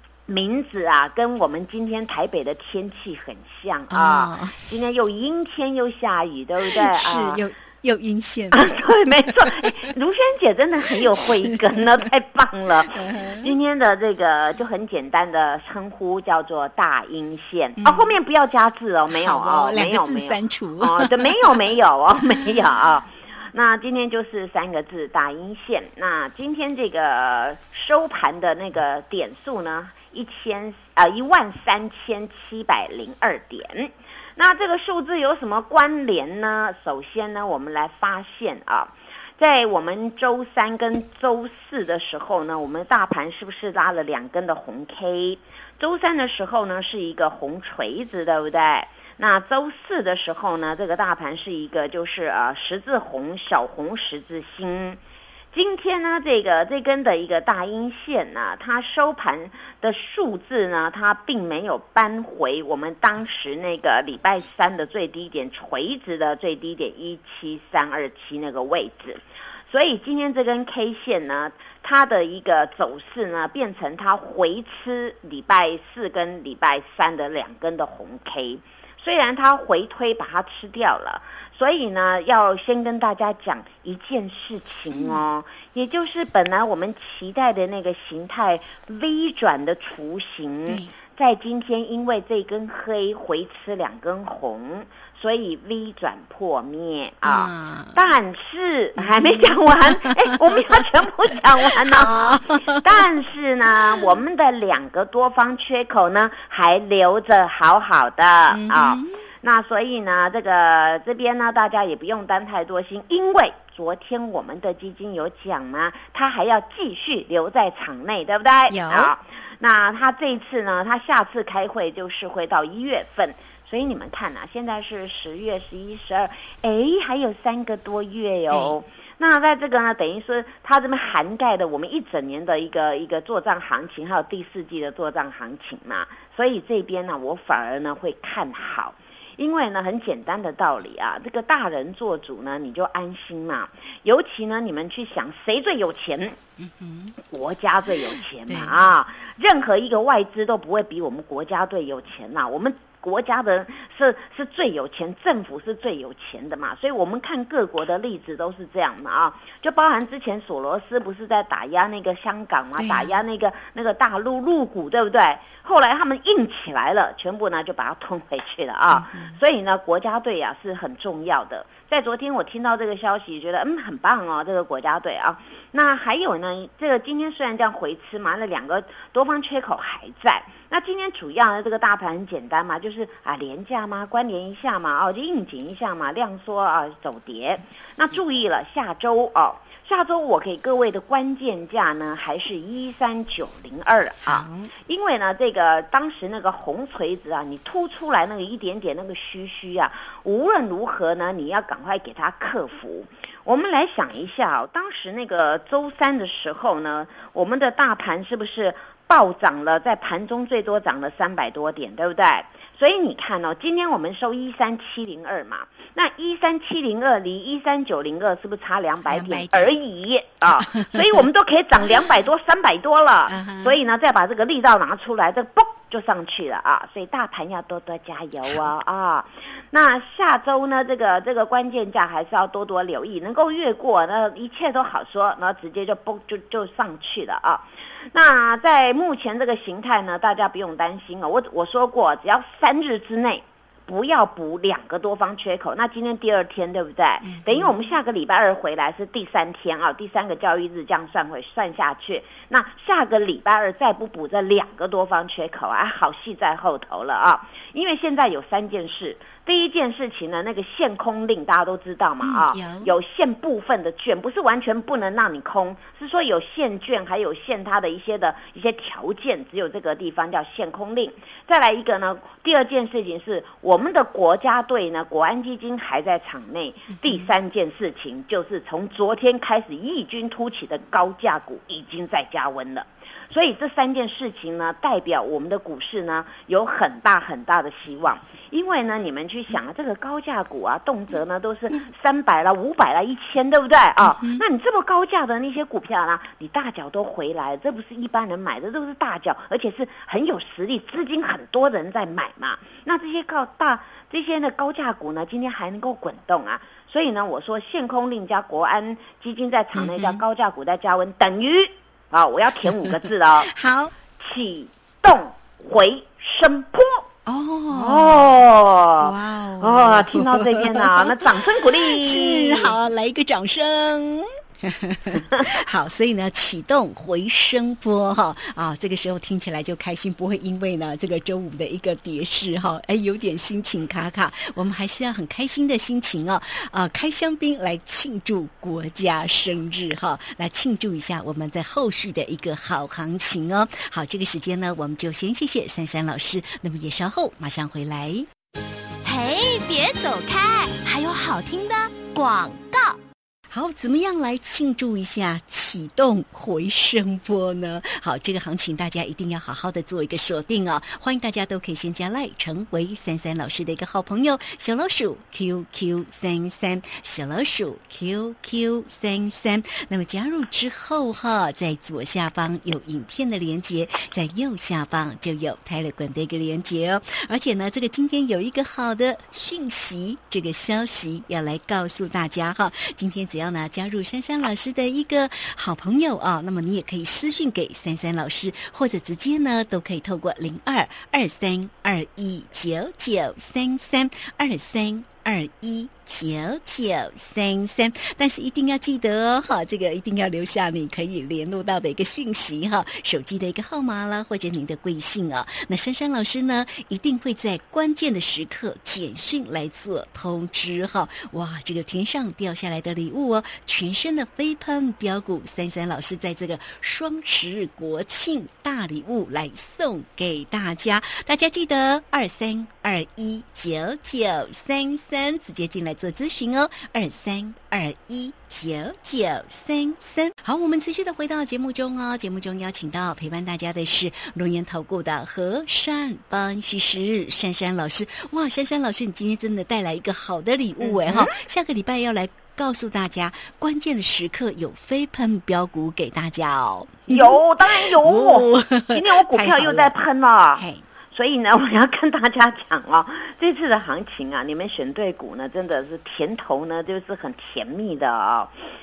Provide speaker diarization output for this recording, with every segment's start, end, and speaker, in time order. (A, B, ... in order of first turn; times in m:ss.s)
0:00.3-0:07.4 A
0:03.9-0:04.6 B
0:06.6-0:08.6 B
0:08.5-0:55.0 A
0:09.4-0:09.9 B
0:11.1-0:11.8 B
0:13.0-0:13.5 B
0:17.8-0:18.1 B
0:19.1-0:21.6 B
0:55.5-2:26.4 A
1:24.9-1:25.2 B
1:37.2-1:38.0 B
1:39.0-1:39.5 B
1:40.0-1:40.8 B
1:41.7-1:43.0 B
1:48.5-1:49.2 B
1:58.7-1:59.1 B
2:08.5-2:08.8 B
2:26.6-2:27.1 B
2:27.2-5:13.5 A
2:28.5-2:28.8 B
2:42.8-2:43.1 B
2:48.9-2:49.4 B
3:14.2-3:14.7 B
3:39.0-3:39.7 B
3:40.7-3:41.2 B
3:43.3-3:43.8 B
4:07.2-4:07.7 B
4:22.2-4:22.9 B
4:54.0-4:54.4 B
5:09.7-5:10.2 B
5:13.5-5:13.9 B
5:14.2-5:17.1 A
5:17.2-5:18.4 B
5:17.7-5:22.7 A
5:19.0-5:48.3 B
5:49.0-5:53.0 C
5:53.5-7:29.9 B
7:20.8-7:21.3 A
7:27.1-7:30.6 A
7:30.6-7:30.8 B
7:31.1-7:38.5 A